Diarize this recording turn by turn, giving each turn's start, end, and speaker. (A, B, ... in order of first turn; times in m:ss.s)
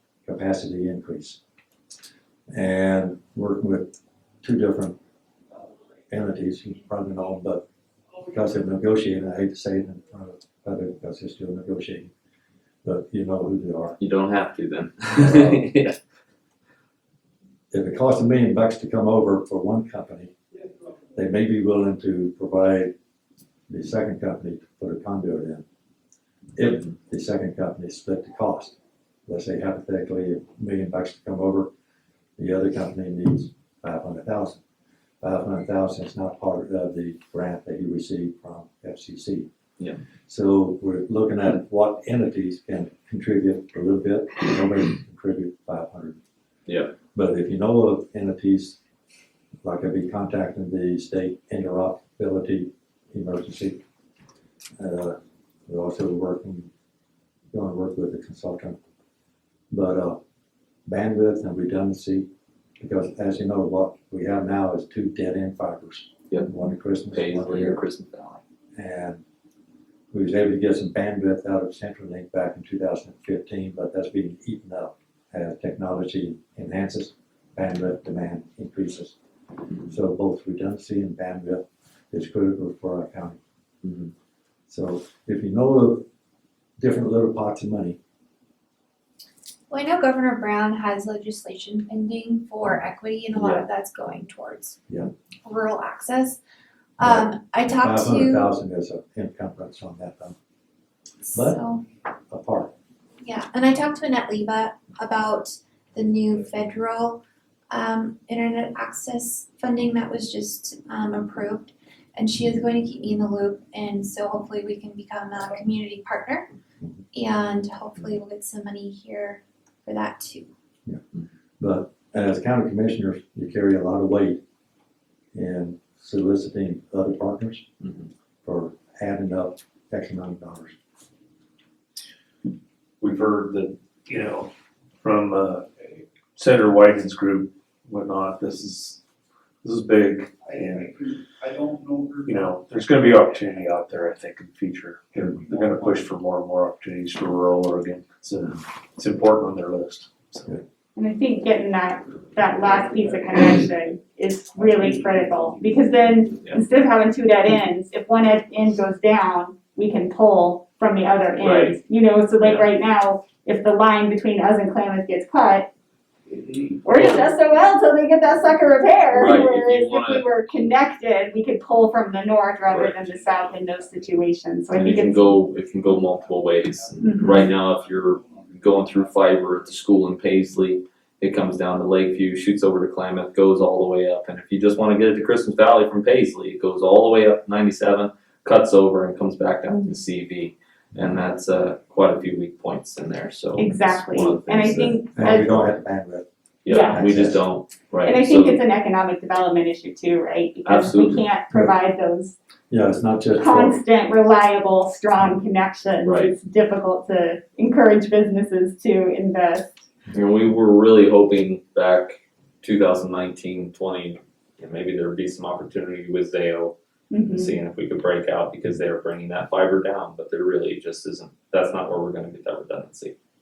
0:00.2-0:01.4 A
0:02.5-0:05.0 A
0:06.1-0:07.6 A
0:08.2-0:12.1 A
0:12.8-0:14.0 A
0:14.0-0:16.0 B
0:17.7-0:20.3 A
0:21.1-0:22.9 A
0:23.7-0:25.6 A
0:26.6-0:28.8 A
0:29.3-0:31.7 A
0:32.4-0:34.6 A
0:35.2-0:39.5 A
0:40.3-0:46.2 A
0:46.7-0:46.9 B
0:47.1-0:48.8 A
0:49.6-0:53.8 A
0:54.8-0:56.7 A
0:57.5-0:58.8 A
0:59.7-1:00.2 A
1:00.9-1:02.3 A
1:02.8-1:07.8 A
1:07.1-1:08.4 B
1:08.8-1:09.2 A
1:10.1-1:19.2 A
1:19.9-1:23.4 A
1:23.8-1:24.1 B
1:24.7-1:26.0 A
1:26.8-1:28.0 A
1:29.7-1:34.8 C
1:33.4-1:33.6 B
1:35.4-1:36.4 C
1:37.0-1:38.5 C
1:37.0-1:40.4 A
1:41.2-1:41.8 C
1:41.3-1:41.6 A
1:42.3-1:42.7 A
1:43.2-1:56.5 C
1:57.1-2:00.5 C
2:01.6-2:04.4 A
2:05.3-2:07.7 A
2:07.8-2:08.1 B
2:08.4-2:10.8 A
2:13.0-2:19.0 D
2:19.6-2:21.1 D
2:20.5-2:23.7 E
2:22.2-2:30.6 D
2:25.4-2:26.0 E
2:30.9-2:45.7 F
2:34.6-2:36.0 E
2:41.4-2:41.8 B
2:42.4-2:42.7 B
2:46.5-2:46.8 E
2:46.8-2:55.4 F
2:47.0-2:47.3 B
2:49.1-2:50.2 B
2:52.6-2:53.6 B
2:54.7-3:15.0 B
2:57.0-2:57.5 F
2:57.6-2:59.1 E
3:13.6-3:15.7 F
3:15.1-3:16.3 A
3:16.6-3:18.6 B
3:16.7-3:17.1 F
3:16.9-3:17.4 A
3:18.0-3:22.3 F
3:20.6-3:21.2 B
3:22.7-3:23.8 A
3:23.4-3:29.8 F
3:26.0-3:26.3 B
3:30.1-3:36.7 B
3:37.1-3:37.6 F
3:37.3-3:43.1 B